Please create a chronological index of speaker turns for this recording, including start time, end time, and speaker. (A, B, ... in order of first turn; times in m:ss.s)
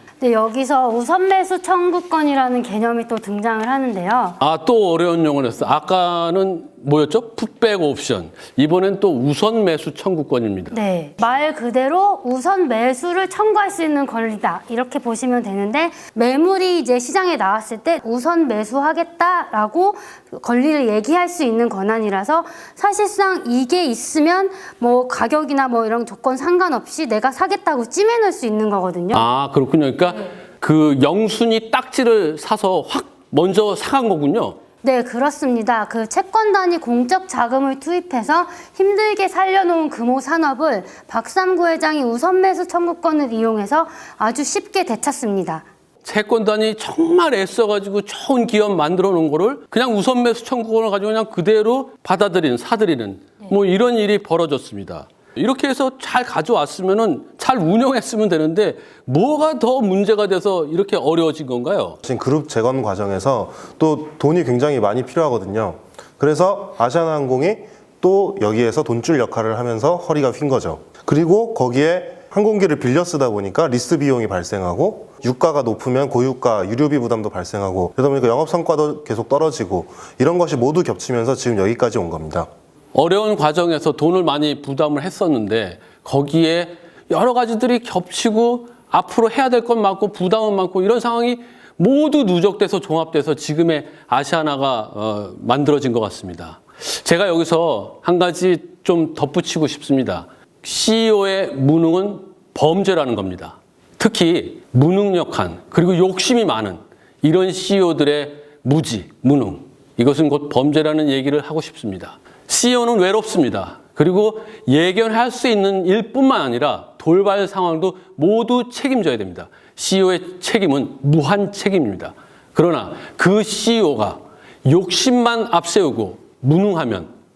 0:00.2-0:04.4 A
0:04.4-0:10.8 B
0:10.7-0:29.3 A
0:29.1-0:34.6 B
0:34.8-0:45.6 A
0:46.0-1:02.0 B
1:02.0-1:22.5 C
1:22.9-2:07.1 B